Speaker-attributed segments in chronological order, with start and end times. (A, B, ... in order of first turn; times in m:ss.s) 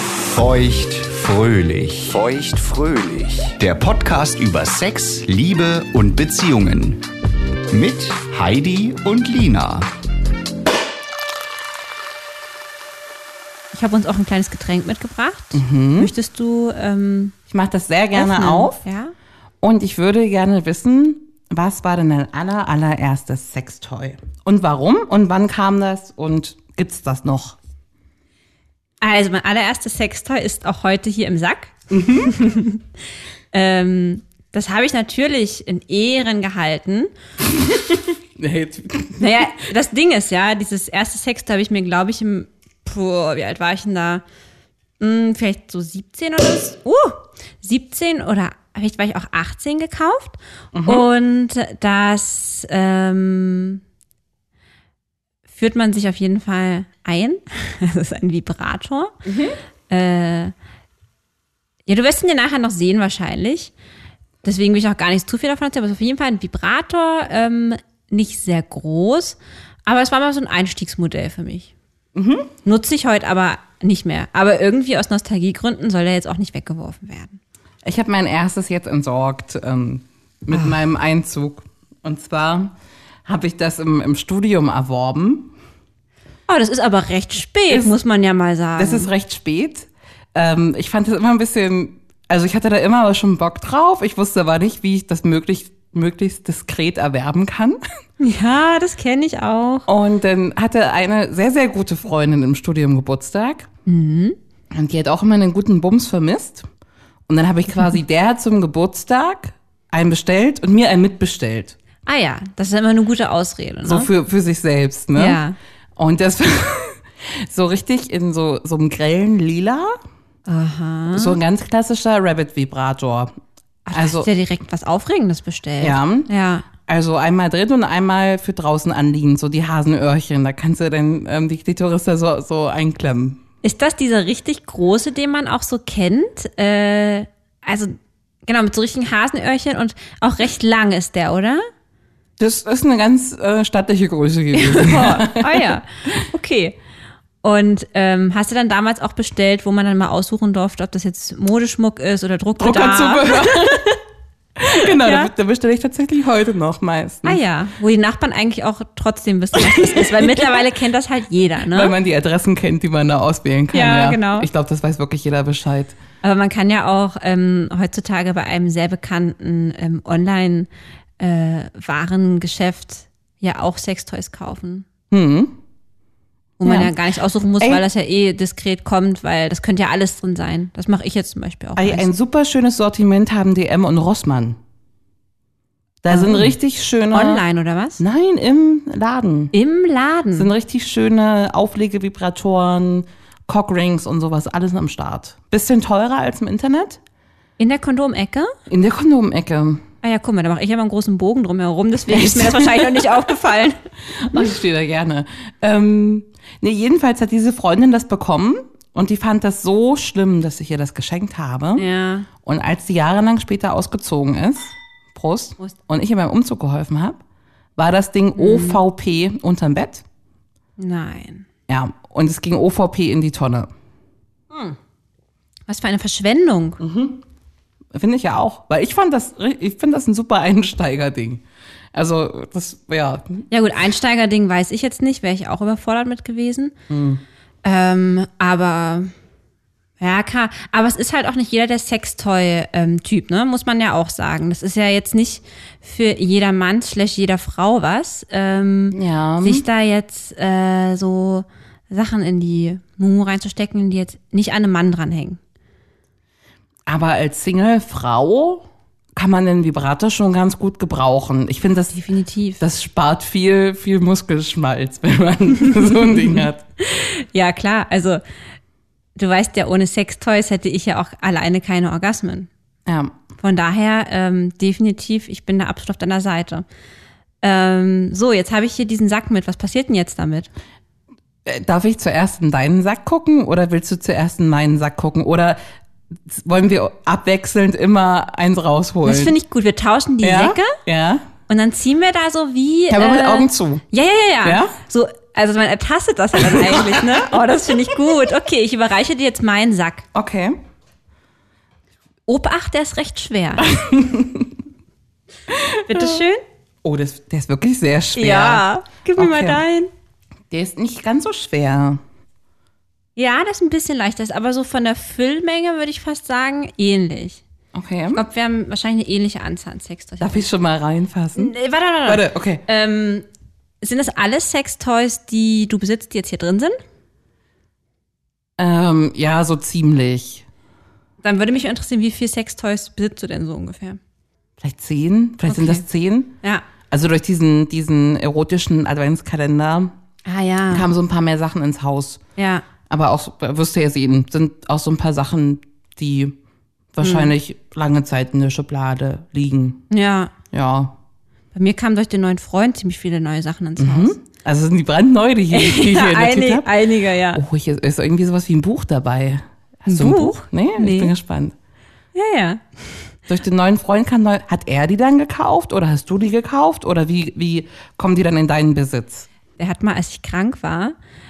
0:00.3-0:07.0 A
0:07.7-0:09.9 A
0:13.7-0:17.3 B
0:15.5-0:16.1 C
0:17.5-0:18.8 C
0:18.1-0:19.1 B
0:19.6-0:27.6 C
0:29.0-0:32.8 B
0:31.9-0:32.4 C
0:33.5-0:37.1 B
0:38.4-0:39.4 C
0:39.2-0:44.2 B
0:45.0-0:53.8 B
0:50.7-0:51.1 C
0:55.5-0:59.1 B
0:59.2-0:59.6 C
0:59.9-1:00.5 B
1:01.9-1:03.7 B
1:04.4-1:11.7 B
1:12.1-1:12.5 C
1:12.6-1:17.4 B
1:17.8-1:22.7 C
1:23.2-1:25.5 C
1:26.5-1:29.1 B
1:27.7-1:28.0 C
1:28.8-1:37.8 C
1:38.2-1:39.9 B
1:39.9-1:43.7 C
1:43.8-1:44.4 B
1:44.7-1:46.6 C
1:47.3-1:51.8 C
1:52.0-1:54.1 B
1:53.8-1:55.4 C
1:55.1-1:55.6 B
1:56.0-1:59.9 C
2:00.5-2:01.4 B
2:01.1-2:03.3 C
2:03.8-2:06.7 B
2:03.9-2:04.3 C
2:05.8-2:13.4 C
2:13.6-2:21.6 B
2:22.4-2:25.8 C
2:24.5-2:26.8 B
2:27.4-2:34.0 B
2:32.6-2:33.9 C
2:34.6-2:37.4 C
2:34.8-2:35.3 B
2:37.2-2:41.9 B
2:39.6-2:40.6 C
2:41.7-2:46.0 C
2:43.7-2:44.5 B
2:46.2-2:54.9 B
2:55.1-2:55.6 C
2:56.6-3:02.1 B
2:56.6-2:56.9 C
3:01.8-3:04.6 C
3:06.0-3:07.4 C
3:06.1-3:06.5 B
3:07.1-3:08.0 B
3:08.0-3:09.5 C
3:09.5-3:10.5 B
3:10.3-3:17.0 C
3:17.6-3:18.5 B
3:18.7-3:19.8 C
3:20.0-3:23.8 B
3:22.1-3:23.2 C
3:24.1-3:31.9 C
3:31.8-3:32.3 B
3:32.4-3:37.2 C
3:37.8-3:40.0 C
3:38.4-3:38.8 B
3:40.8-3:41.4 B
3:41.7-3:43.7 C
3:44.5-3:44.8 B
3:45.7-3:46.8 B
3:46.8-3:47.2 C
3:47.9-3:53.4 C
3:53.5-3:56.7 B
3:56.9-3:57.2 C
3:57.6-3:59.1 B
4:00.0-4:15.4 B
4:08.9-4:09.6 C
4:16.9-4:22.0 C
4:22.0-4:22.6 B
4:22.6-4:26.6 C
4:26.3-4:28.2 B
4:29.2-4:32.5 B
4:32.8-4:33.2 C
4:33.4-4:36.6 B
4:37.4-4:40.5 B
4:41.4-4:45.6 C
4:46.3-4:49.3 C
4:49.0-4:50.8 B
4:50.2-4:51.2 C
4:51.5-5:00.0 B
4:52.9-4:53.8 C
4:54.4-4:54.7 C
4:56.4-4:57.3 C
5:00.1-5:00.6 C
5:02.3-5:03.7 B
5:03.6-5:04.5 C
5:05.5-5:06.2 C
5:05.9-5:06.4 B
5:06.8-5:09.6 C
5:08.2-5:09.9 B
5:10.5-5:12.0 C
5:13.2-5:17.4 B
5:17.7-5:18.2 C
5:18.1-5:20.5 B
5:20.2-5:21.5 C
5:21.4-5:23.2 B
5:22.0-5:22.6 C
5:23.8-5:26.8 B
5:28.6-5:30.4 C
5:31.2-5:34.0 B
5:34.6-5:36.4 C
5:35.5-5:35.8 B
5:36.9-5:39.9 C
5:40.2-5:40.9 B
5:40.7-5:42.2 C
5:42.4-5:42.6 B
5:42.9-5:46.4 C
5:46.9-5:49.8 C
5:47.0-5:47.3 B
5:49.9-5:50.3 B
5:50.5-5:50.9 C
5:51.5-5:54.2 B
5:53.8-5:56.8 C
5:55.5-5:57.4 B
5:57.3-6:01.5 C
5:59.9-6:01.1 B
6:02.1-6:03.0 B
6:03.3-6:09.3 C
6:09.6-6:10.9 B